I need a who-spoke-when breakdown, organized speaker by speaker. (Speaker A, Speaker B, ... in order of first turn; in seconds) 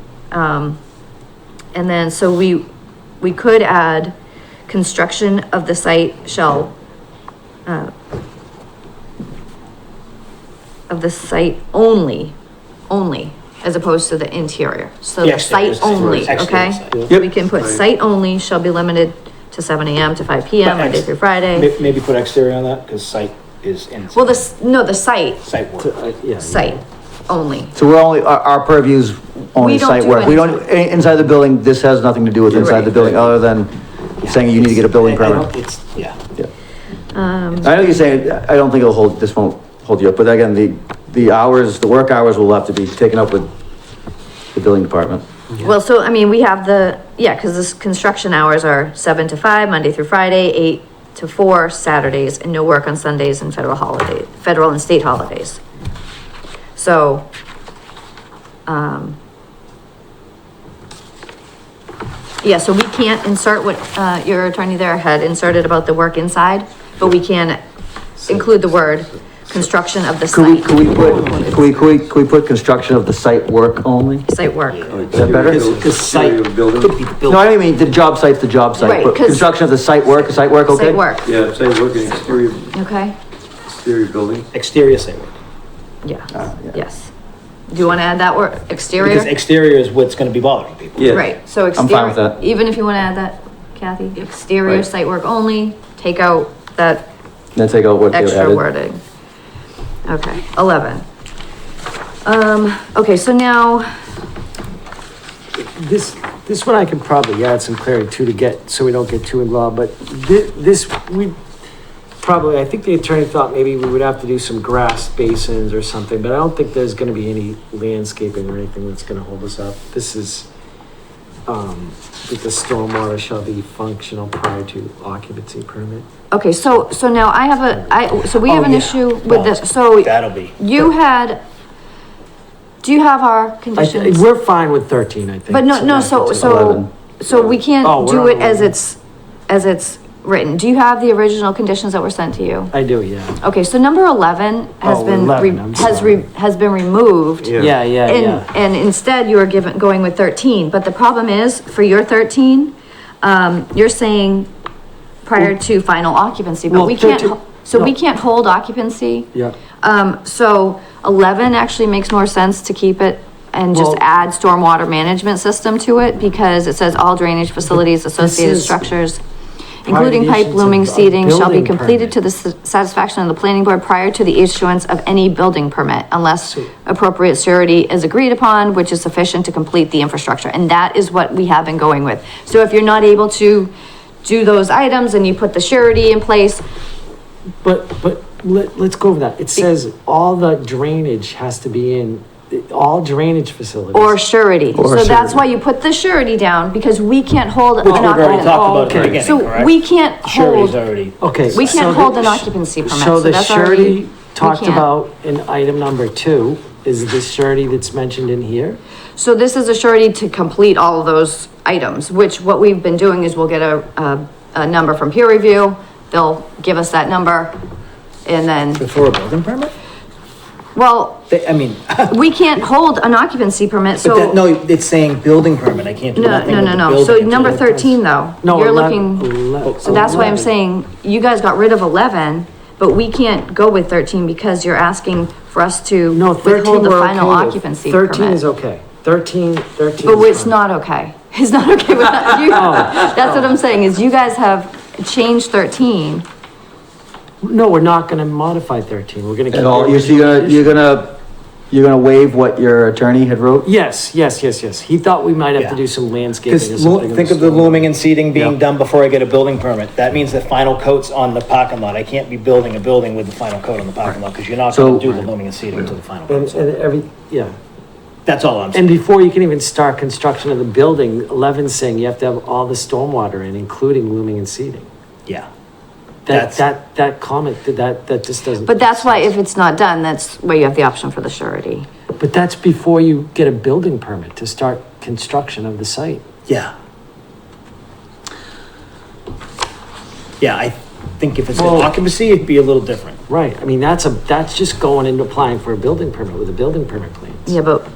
Speaker A: 0.3-0.8, 1.7-2.7, 3.2-4.1, 4.7-6.7, 7.7-7.9, 10.9-12.3, 12.9-21.7, 24.1-25.4, 26.4-27.7, 29.6-30.6, 32.6-32.9, 37.1-37.8, 45.6-55.6, 56.8-57.3, 58.7-59.2, 62.4-67.6, 68.2-71.7, 74.3-75.0, 78.8-79.5, 80.1-81.3, 82.7-83.2, 86.0-87.1, 87.7-89.3, 91.1-97.1, 98.1-99.0, 100.1-101.0, 102.2-104.0, 126.3-131.4, 132.8-134.2, 135.5-142.7, 143.4-154.5, 155.2-169.2, 169.8-183.7, 184.2-186.6, 193.9-200.8, 201.5-204.9, 209.2-217.6, 218.2-218.8, 220.8-221.2, 222.1-224.4, 226.2-238.4, 240.0-246.2, 278.6-281.9, 297.4-297.9
Speaker B: 15.2-17.1, 20.6-24.4, 25.4-25.9, 32.5-33.3, 34.2-36.2, 74.9-77.4, 84.5-85.3, 89.0-91.2, 128.4-130.6, 197.8-202.4, 218.8-219.7, 221.3-222.2, 224.0-227.6, 229.6-230.3, 255.6-255.8, 256.5-266.7, 268.2-269.0, 276.3-276.6, 286.5-286.7, 290.4-293.2
Speaker C: 25.8-26.7, 105.5-111.4, 112.2-120.5, 121.5-126.1, 127.7-128.2, 133.8-136.8, 137.8-138.8, 142.7-143.4, 144.8-146.2, 147.5-148.5, 156.7-157.9, 163.7-164.0, 168.2-168.9, 169.9-172.2, 187.6-194.2, 197.8-199.4, 201.2-208.8, 227.4-230.5, 236.1-240.6, 242.5-243.5, 247.4-250.8, 253.6-257.9, 266.3-267.6, 268.7-274.9, 276.2-279.3, 282.2-286.2, 291.5-291.9, 293.3-297.6
Speaker D: 27.7-35.5, 37.5-43.5, 44.5-45.2, 70.3-74.3, 75.1-75.7, 77.3-81.2, 86.3-86.8, 91.8-92.4, 97.5-98.6, 136.4-136.9, 194.7-195.4, 249.5-253.7, 264.7-265.1
Speaker E: 74.9-76.9, 81.3-82.7, 83.7-84.5